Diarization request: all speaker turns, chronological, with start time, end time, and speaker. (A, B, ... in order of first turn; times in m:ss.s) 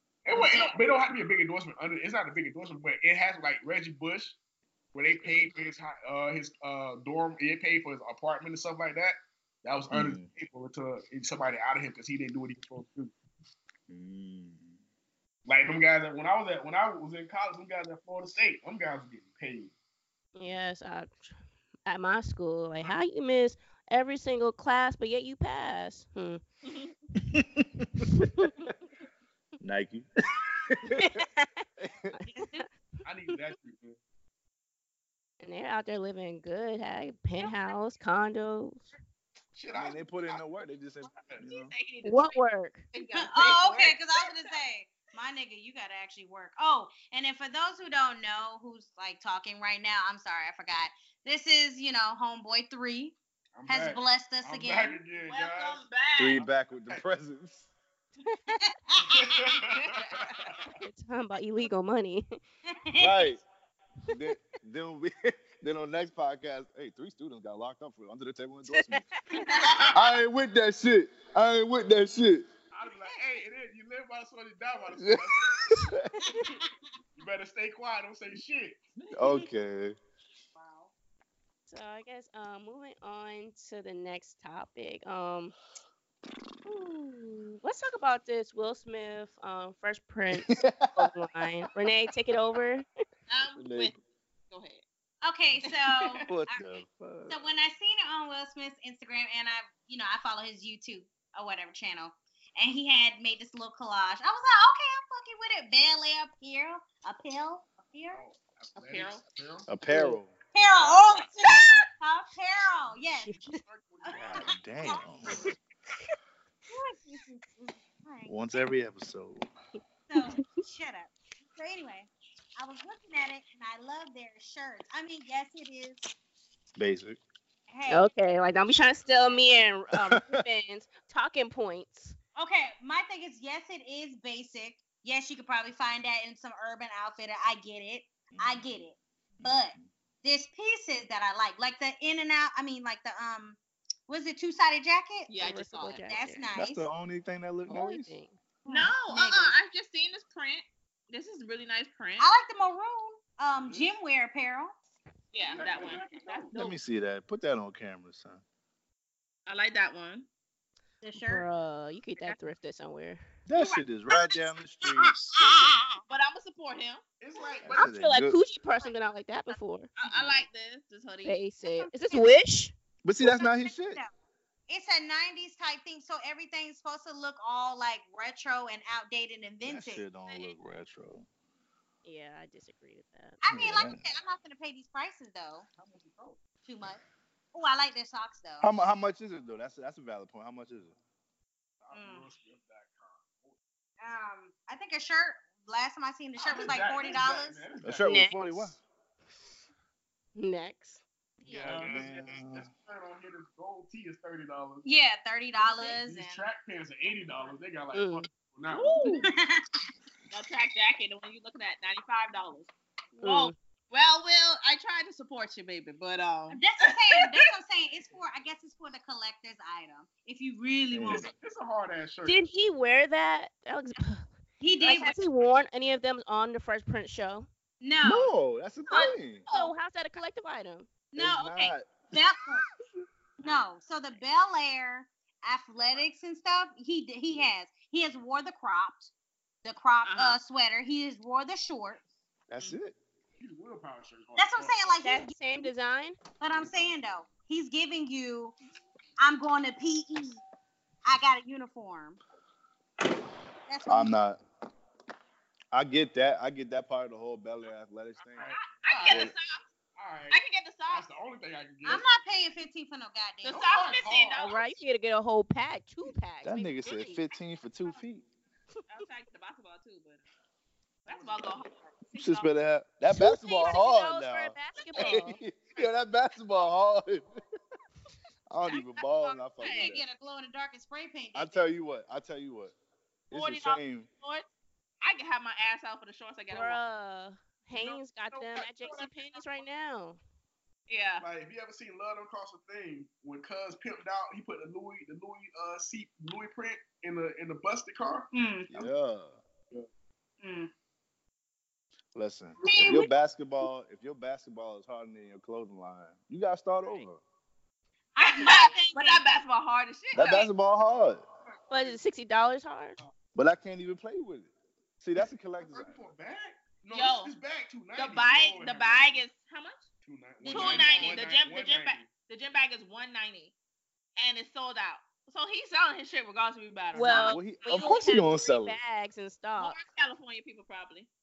0:00.2-0:04.4 A
0:04.9-0:13.1 A
0:05.2-0:05.5 B
0:09.9-0:10.3 B
0:13.9-0:14.8 B
0:15.5-0:19.7 A
0:20.4-0:26.4 C
0:26.6-0:26.9 D
0:27.2-0:28.5 B
0:28.1-0:28.7 C
0:29.6-0:30.0 B
0:30.6-0:31.2 B
0:30.9-0:32.7 C
0:31.8-0:32.1 B
0:32.3-0:32.6 E
0:33.0-0:34.0 A
0:35.4-0:38.9 C
0:39.5-0:40.4 A
0:39.7-0:41.7 B
0:41.1-0:41.4 A
0:41.4-0:42.4 D
0:42.0-0:42.9 C
0:42.9-0:44.5 D
0:43.2-0:53.2 E
0:53.5-0:55.8 A
0:53.7-0:55.0 E
0:55.1-0:56.4 D
0:56.2-0:57.7 B
0:56.4-0:57.0 A
0:58.3-0:58.6 C
0:58.6-0:59.3 E
0:59.0-1:00.7 A
0:59.8-1:00.5 D
1:00.8-1:02.4 C
1:02.7-1:03.3 E
1:03.0-1:03.4 B
1:04.1-1:09.0 B
1:08.7-1:09.5 C
1:09.5-1:09.8 D
1:09.9-1:12.4 B
1:12.7-1:15.9 A
1:14.9-1:16.1 B
1:16.3-1:16.6 E
1:17.2-1:18.8 A
1:19.0-1:19.4 D
1:19.1-1:20.0 B
1:20.5-1:20.9 E
1:21.7-1:25.5 C
1:26.6-1:32.8 C
1:30.3-1:31.1 B
1:33.3-1:33.9 D
1:33.6-1:33.9 B
1:34.5-1:34.8 D
1:35.2-1:48.2 E
1:35.6-1:36.2 D
1:36.3-1:37.4 B
1:48.1-1:49.8 A
1:48.8-1:49.2 D
1:49.7-1:50.3 B
1:49.9-1:50.2 C
1:50.5-1:53.3 E
1:50.8-1:51.2 A
1:53.2-1:54.6 A
1:54.0-1:55.0 E
1:54.1-1:55.5 B
1:56.7-1:58.4 E
1:58.2-1:59.5 B
2:00.1-2:06.1 E
2:00.2-2:00.5 C
2:06.8-2:07.2 B
2:07.7-2:08.1 E
2:07.9-2:12.2 C
2:10.0-2:10.4 B
2:12.4-2:25.3 E
2:18.3-2:18.6 B
2:19.4-2:19.9 B
2:25.3-2:26.0 D
2:25.4-2:26.5 C
2:26.1-2:26.8 E
2:26.5-2:28.1 B
2:27.7-2:28.4 C
2:28.6-2:29.6 E
2:28.7-2:32.3 D
2:32.2-2:34.7 E
2:33.5-2:33.9 A
2:35.3-2:36.8 D
2:35.4-2:36.5 A
2:36.5-2:38.4 B
2:39.5-2:40.3 D
2:41.0-2:41.5 E
2:41.2-2:43.2 C
2:43.5-2:45.5 B
2:45.4-2:46.0 E
2:46.1-2:47.0 D
2:47.2-2:47.9 A
2:47.6-2:48.4 B
2:47.8-2:49.9 C
2:50.0-2:51.4 D
2:50.0-2:50.4 A
2:51.2-2:52.7 C
2:51.6-2:52.4 E
2:53.0-2:54.0 B
2:53.2-2:54.1 E
2:54.7-3:00.0 E
2:59.6-3:01.3 B
3:00.3-3:00.5 D
3:02.0-3:03.4 C
3:03.4-3:05.7 E
3:03.4-3:04.0 B
3:05.7-3:06.4 A
3:06.6-3:07.0 E
3:07.5-3:08.7 E
3:08.6-3:10.9 B
3:11.8-3:13.5 A
3:11.9-3:12.3 E
3:14.0-3:17.6 E
3:16.4-3:18.1 A
3:17.8-3:18.8 B
3:18.0-3:18.7 C
3:20.4-3:21.9 C
3:21.5-3:22.7 B
3:21.6-3:24.9 A
3:24.8-3:26.5 E
3:25.8-3:29.2 A
3:27.9-3:28.3 C
3:28.7-3:29.3 D
3:29.2-3:29.6 E
3:30.3-3:36.6 D
3:33.2-3:33.5 C
3:36.5-3:41.3 E
3:40.9-3:41.3 B
3:41.3-3:42.4 A
3:42.2-3:44.3 C
3:44.6-3:45.2 E
3:44.8-3:47.5 C
3:47.8-3:48.3 E
3:48.0-3:49.4 B
3:48.9-3:49.7 D
3:49.0-3:50.9 C
3:51.1-3:52.6 E
3:51.2-3:52.0 B
3:53.4-3:59.1 E
3:59.6-4:02.0 E
4:00.0-4:00.4 D
4:02.5-4:03.0 B
4:03.4-4:05.0 A
4:04.4-4:05.7 E
4:05.0-4:06.2 C
4:06.4-4:08.5 E
4:06.5-4:07.0 A
4:09.2-4:10.4 E
4:11.0-4:12.2 E
4:13.7-4:14.1 E
4:13.9-4:14.4 B
4:15.7-4:18.5 B
4:18.4-4:19.3 A
4:18.4-4:19.6 D
4:19.1-4:19.3 B
4:20.0-4:22.1 A
4:20.3-4:21.1 D
4:21.8-4:23.8 E
4:23.4-4:24.6 D
4:23.4-4:24.6 A
4:24.4-4:27.2 C
4:26.4-4:28.2 B
4:28.9-4:30.2 D
4:31.0-4:32.5 D
4:31.1-4:31.6 A
4:32.1-4:37.2 B
4:33.1-4:35.4 C
4:38.5-4:40.0 B
4:38.7-4:39.0 C
4:39.6-4:39.9 D
4:39.6-4:41.7 E
4:41.4-4:42.7 B
4:43.3-4:44.1 B
4:43.3-4:44.5 D
4:45.0-4:46.8 D
4:46.5-4:50.2 C
4:47.7-4:49.6 A
4:50.9-4:51.2 D
4:51.2-4:58.3 A
4:58.3-4:58.7 E
4:58.7-4:59.4 B
5:00.4-5:00.7 E
5:02.1-5:07.2 B
5:02.6-5:03.1 E
5:08.2-5:09.2 E
5:08.2-5:10.5 D
5:08.4-5:08.7 C
5:10.1-5:11.2 B
5:11.7-5:12.0 A
5:11.7-5:13.0 C
5:13.4-5:16.1 B
5:15.6-5:19.2 A
5:16.9-5:17.3 D
5:17.9-5:19.9 D
5:20.0-5:22.1 A
5:20.4-5:21.2 E
5:20.5-5:23.5 D
5:24.2-5:27.9 D
5:26.9-5:29.8 C
5:27.1-5:28.8 B
5:29.6-5:31.1 D